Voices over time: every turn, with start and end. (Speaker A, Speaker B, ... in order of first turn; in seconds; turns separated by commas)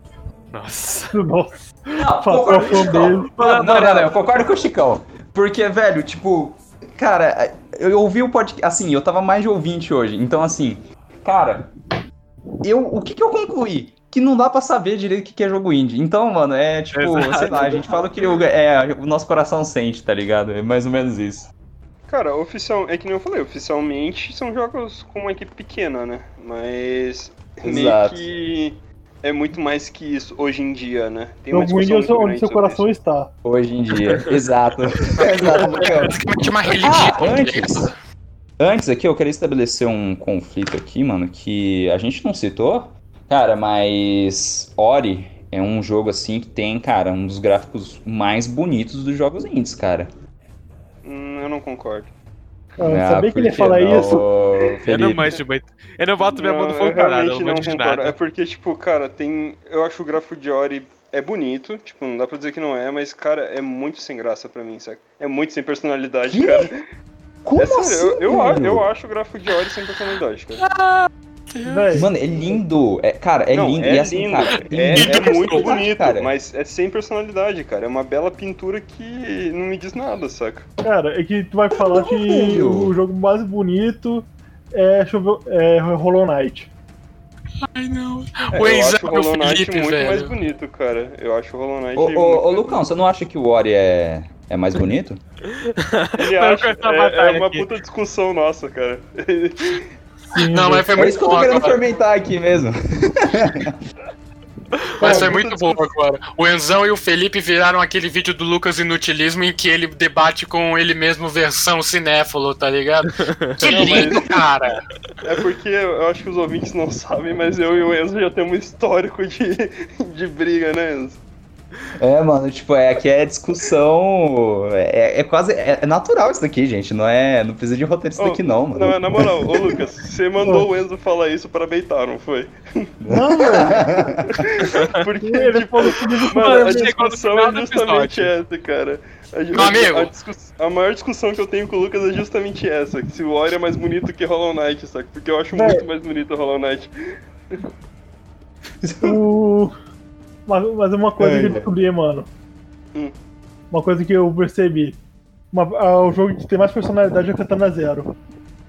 Speaker A: 0.5-1.2, Speaker B: 1.1-3.4, Speaker C: 1.9-11.7, Speaker A: 2.5-4.2, Speaker C: 12.6-21.5, Speaker A: 16.9-18.0, Speaker D: 22.1-32.9, Speaker C: 27.6-28.3, Speaker B: 31.5-33.3, Speaker C: 33.4-36.2, Speaker E: 35.2-37.9, Speaker C: 36.8-37.9, Speaker C: 38.6-50.1, Speaker D: 51.0-52.1, Speaker B: 52.8-54.3, Speaker C: 52.9-55.3, Speaker D: 54.6-55.4, Speaker A: 54.9-58.2, Speaker D: 56.4-66.8, Speaker C: 66.3-66.7, Speaker C: 67.4-68.9, Speaker D: 67.6-70.7, Speaker E: 70.6-71.9, Speaker B: 71.6-72.1, Speaker C: 71.9-76.3, Speaker D: 73.5-80.7, Speaker E: 74.9-75.8, Speaker B: 80.8-86.7, Speaker C: 82.0-83.0, Speaker E: 87.8-90.4, Speaker D: 88.5-92.8, Speaker C: 92.0-95.2, Speaker A: 95.5-97.7, Speaker D: 96.2-99.9, Speaker E: 100.3-101.8, Speaker B: 100.3-101.0, Speaker C: 100.9-103.8, Speaker B: 105.0-105.5, Speaker E: 105.0-114.8, Speaker A: 113.2-113.6, Speaker D: 113.6-114.2, Speaker D: 115.2-121.2, Speaker C: 122.0-129.5, Speaker D: 128.2-132.9, Speaker B: 130.4-130.7, Speaker C: 133.0-134.5, Speaker B: 133.1-133.9, Speaker D: 134.4-146.9, Speaker B: 135.2-137.0, Speaker A: 136.3-138.3, Speaker E: 139.5-140.1, Speaker B: 145.5-145.9, Speaker C: 148.8-149.2, Speaker B: 149.0-149.8, Speaker B: 150.5-152.3, Speaker C: 151.2-151.7, Speaker B: 153.7-155.0, Speaker B: 155.5-158.1